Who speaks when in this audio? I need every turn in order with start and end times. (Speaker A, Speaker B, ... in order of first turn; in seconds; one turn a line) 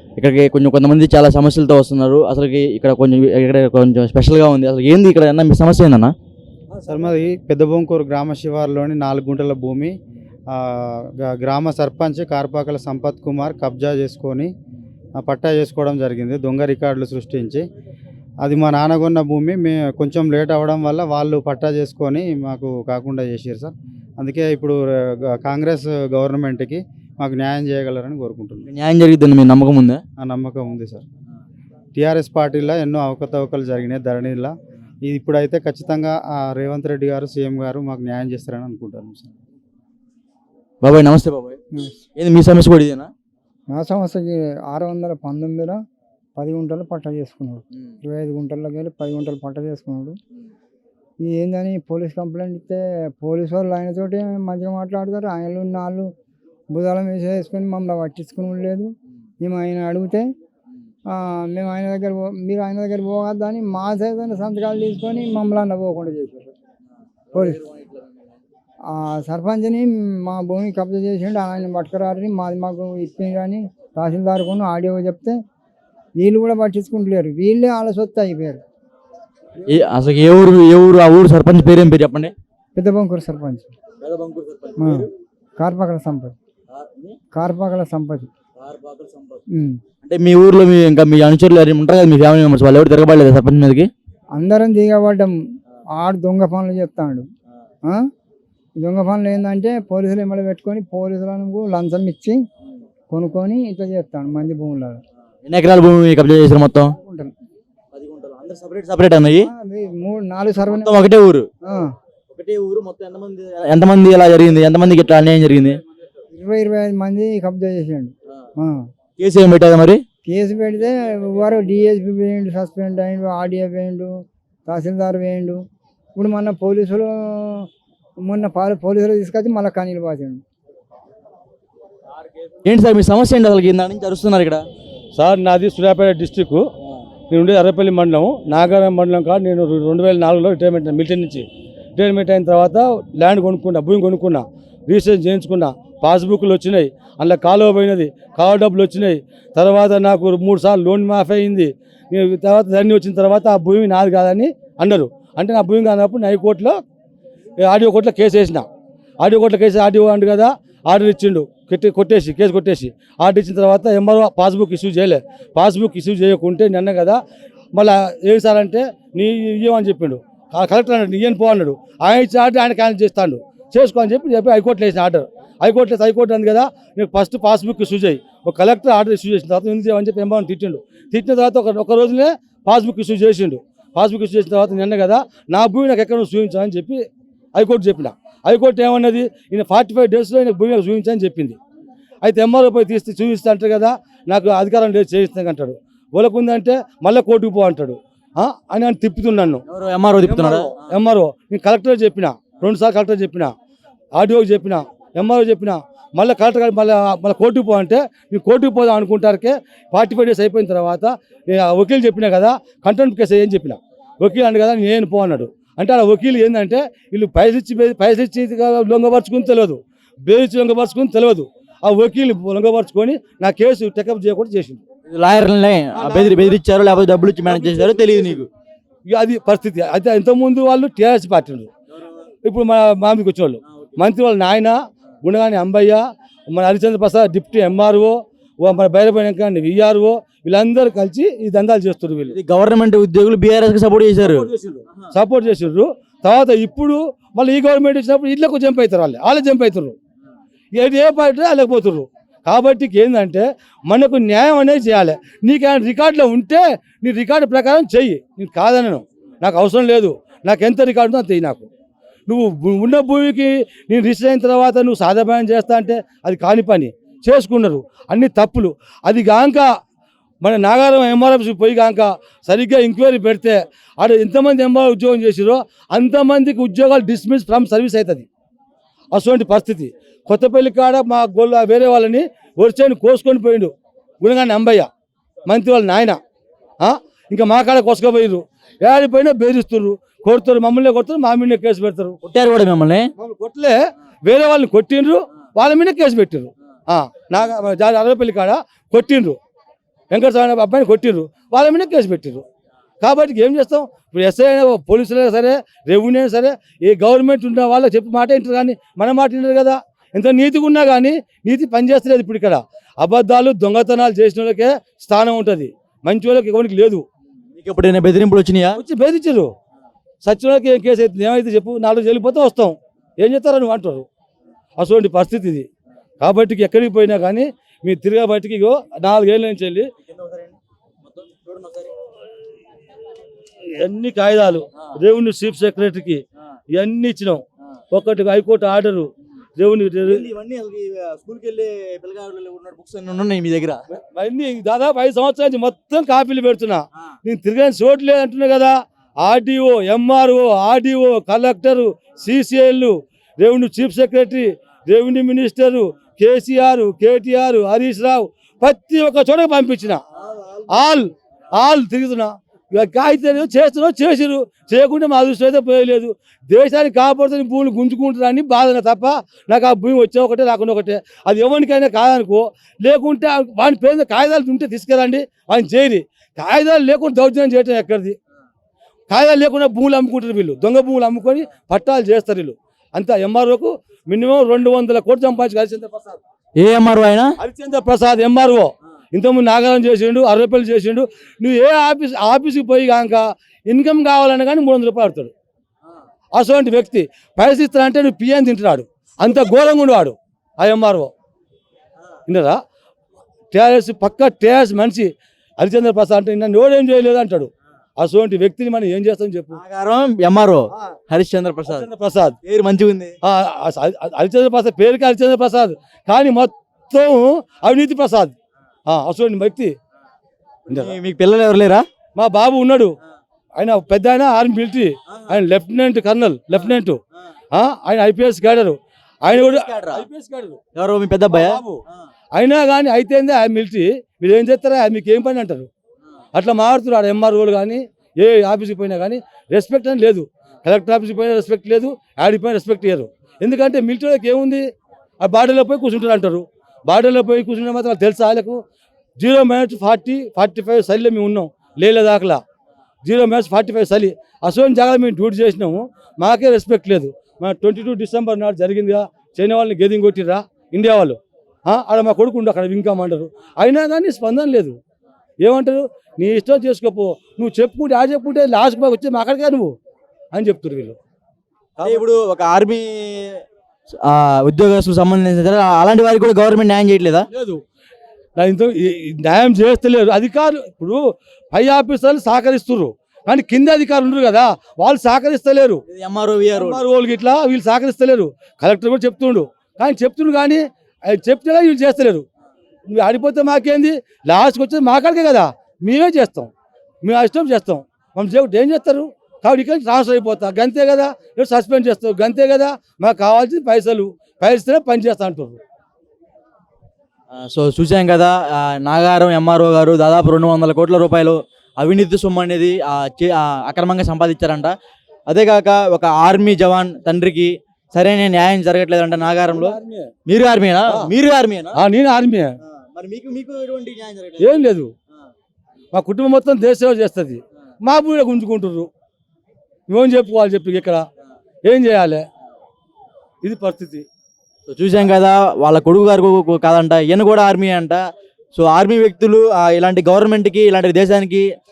Speaker A: 0.2-6.1
Speaker B: 6.8-9.9
Speaker B: 10.5-14.5
Speaker B: 15.2-17.6
Speaker B: 18.4-28.7
Speaker A: 28.7-30.0
Speaker B: 30.2-31.0
Speaker B: 31.9-39.4
Speaker A: 40.8-41.6
Speaker A: 42.2-43.1
Speaker C: 43.7-45.8
Speaker C: 46.4-50.2
Speaker C: 51.2-56.1
Speaker C: 56.7-60.3
Speaker C: 61.1-66.5
Speaker A: 67.3-68.1
Speaker C: 67.3-67.6
Speaker C: 68.8-75.4
Speaker C: 76.2-78.6
Speaker A: 79.7-82.3
Speaker C: 82.7-83.7
Speaker A: 84.0-85.1
Speaker C: 84.8-85.1
Speaker C: 85.6-86.3
Speaker A: 86.7-87.2
Speaker C: 87.3-88.3
Speaker A: 88.6-89.4
Speaker C: 89.5-89.8
Speaker A: 90.0-93.9
Speaker C: 94.3-95.3
Speaker C: 96.0-97.3
Speaker C: 98.8-102.4
Speaker C: 103.1-105.0
Speaker A: 105.4-106.9
Speaker C: 106.9-107.3
Speaker A: 107.9-109.5
Speaker C: 109.4-111.0
Speaker A: 110.7-111.5
Speaker A: 112.3-115.8
Speaker C: 116.3-118.8
Speaker A: 119.2-120.0
Speaker C: 120.2-125.6
Speaker C: 126.1-127.7
Speaker C: 128.2-130.4
Speaker A: 132.6-134.6
Speaker D: 135.1-136.6
Speaker D: 137.3-156.8
Speaker D: 157.6-158.7
Speaker D: 159.2-167.2
Speaker D: 167.7-191.6
Speaker D: 192.2-199.6
Speaker A: 199.7-200.8
Speaker D: 200.2-203.5
Speaker D: 204.2-224.8
Speaker A: 225.1-228.5
Speaker D: 225.9-226.6
Speaker D: 227.4-228.4
Speaker D: 229.1-231.7
Speaker D: 232.4-242.3
Speaker A: 242.3-245.1
Speaker D: 244.2-249.9
Speaker D: 250.7-261.7
Speaker D: 262.3-269.7
Speaker D: 270.4-278.2
Speaker D: 279.1-284.9
Speaker D: 285.4-286.2
Speaker D: 286.8-292.2
Speaker A: 292.2-293.1
Speaker D: 293.2-299.4
Speaker D: 300.1-302.4
Speaker D: 303.0-317.0
Speaker A: 317.6-318.8
Speaker D: 318.8-319.5
Speaker D: 320.2-324.1
Speaker D: 324.8-325.7
Speaker D: 326.2-329.9
Speaker A: 330.1-331.9
Speaker D: 333.6-336.2
Speaker D: 336.7-340.3
Speaker A: 340.0-343.8
Speaker D: 343.9-360.0
Speaker A: 360.3-360.6
Speaker D: 360.7-378.2
Speaker D: 379.1-386.2
Speaker A: 386.6-387.3
Speaker D: 387.4-395.3
Speaker D: 396.3-401.1
Speaker D: 402.3-402.6
Speaker D: 403.5-409.6
Speaker A: 409.5-411.9
Speaker D: 411.6-412.4
Speaker A: 412.4-413.1
Speaker D: 413.2-418.3
Speaker D: 418.9-419.7
Speaker A: 420.7-421.8
Speaker D: 422.1-422.9
Speaker D: 423.6-427.0
Speaker A: 425.1-425.4
Speaker D: 427.5-430.6
Speaker A: 429.3-430.1
Speaker A: 430.7-431.6
Speaker D: 431.2-431.8
Speaker D: 432.3-435.7
Speaker D: 436.3-444.7
Speaker D: 445.2-448.6
Speaker D: 449.2-452.4
Speaker D: 453.0-464.8
Speaker D: 465.4-469.7
Speaker D: 470.3-471.0
Speaker D: 471.8-472.0
Speaker A: 471.8-473.4
Speaker A: 474.0-477.3
Speaker D: 478.4-485.8
Speaker A: 485.9-486.8
Speaker D: 486.5-492.2
Speaker D: 492.9-496.5
Speaker D: 497.0-505.6
Speaker A: 507.3-514.7
Speaker A: 515.3-519.8
Speaker D: 519.5-520.1
Speaker A: 520.3-521.8
Speaker D: 521.8-522.5
Speaker A: 522.7-524.6
Speaker D: 524.4-524.9
Speaker D: 525.9-528.9
Speaker D: 529.9-531.0
Speaker D: 531.6-532.2
Speaker D: 533.4-534.0
Speaker A: 534.7-538.0
Speaker A: 538.5-541.5